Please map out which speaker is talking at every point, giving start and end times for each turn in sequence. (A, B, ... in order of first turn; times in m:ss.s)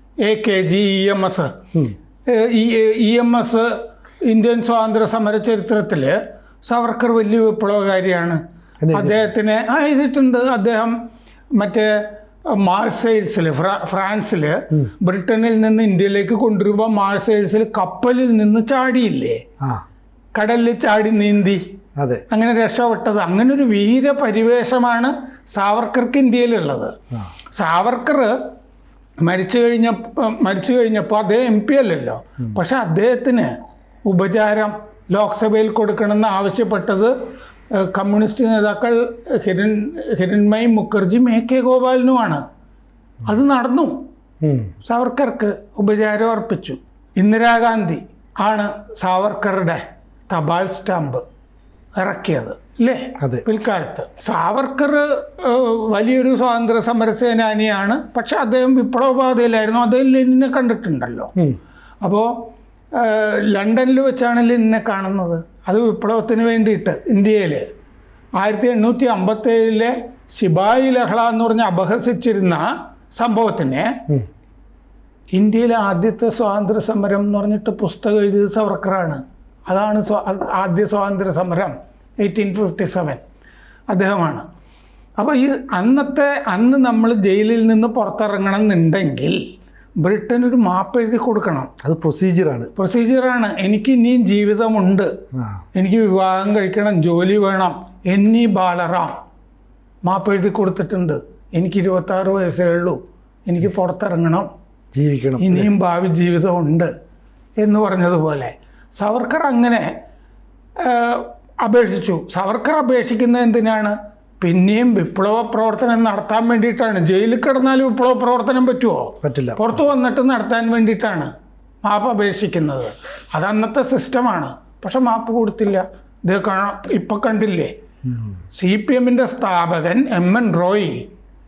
0:00.2-0:01.5 A
0:02.3-0:03.7 A
0:04.2-0:11.0 A
0:08.8-0:09.2 B
0:11.6-0:12.0 A
0:12.5-0:19.4 A
0:20.4-0:21.6 A
0:22.0-0:22.2 B
0:22.3-0:26.9 A
0:27.5-0:28.4 A
0:29.2-0:33.5 A
0:34.1-0:37.1 A
0:37.8-0:42.4 A
0:43.2-0:44.0 A
0:44.4-0:44.7 B
0:44.8-0:51.2 A
0:52.0-1:01.3 A
0:53.2-0:53.4 B
1:02.0-1:02.3 A
1:02.9-1:07.7 A
1:08.4-1:14.0 A
1:15.4-1:23.2 A
1:23.9-1:24.4 A
1:25.2-1:29.4 A
1:30.0-1:31.7 A
1:31.8-1:32.7 B
1:32.8-1:35.1 A
1:35.4-1:35.6 B
1:35.8-1:39.2 A
1:40.0-1:44.5 A
1:44.9-1:45.7 B
1:45.4-1:46.9 A
1:47.6-1:49.9 A
1:50.8-2:01.3 A
1:59.2-1:59.8 B
2:01.8-2:07.7 A
2:08.1-2:08.4 B
2:08.5-2:11.1 A